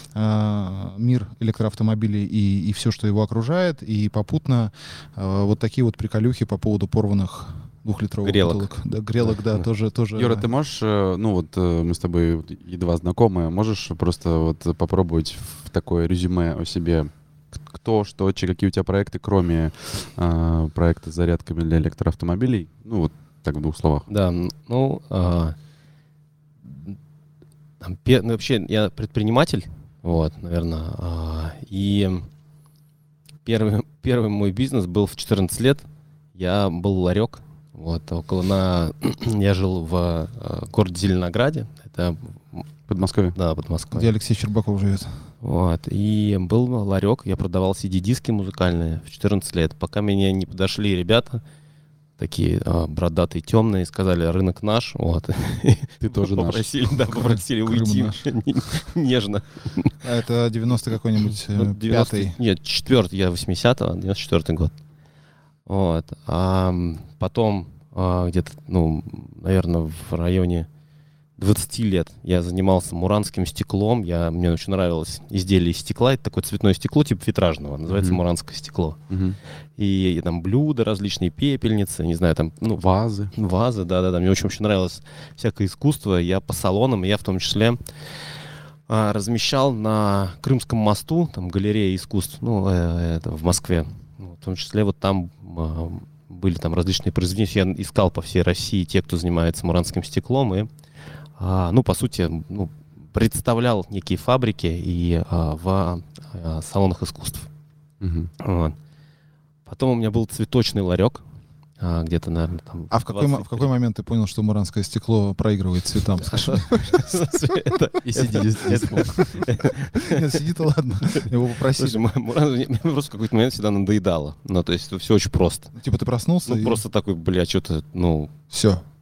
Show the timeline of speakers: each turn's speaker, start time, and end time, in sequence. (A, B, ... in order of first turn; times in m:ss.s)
0:00.1-0:10.5 A
0:08.2-0:08.7 B
0:09.2-0:09.6 B
0:10.1-0:17.1 C
0:17.7-0:24.1 C
0:24.1-0:25.6 B
0:26.7-0:26.9 B
0:27.8-0:32.3 B
0:33.4-0:42.7 B
0:42.9-0:43.4 C
0:43.3-0:44.1 B
0:43.9-0:45.1 A
0:45.4-0:51.4 B
0:52.2-0:59.9 B
0:56.0-0:56.7 C
0:57.1-0:58.2 A
1:00.0-1:02.4 A
1:01.5-1:04.7 B
1:05.6-1:10.7 B
1:11.4-1:19.0 B
1:17.9-1:18.2 C
1:19.1-1:19.4 C
1:19.8-1:27.8 B
1:22.7-1:23.3 C
1:28.9-1:40.7 B
1:41.4-1:47.5 B
1:48.0-1:48.3 C
1:48.4-1:48.8 B
1:49.6-1:51.2 B
1:51.8-1:53.6 B
1:52.9-1:57.1 A
1:56.2-2:00.4 B
1:58.0-1:59.4 C
1:58.9-2:02.0 A
2:01.1-2:05.7 B
2:05.7-2:06.8 A
2:06.4-2:08.3 B
2:08.5-2:08.8 A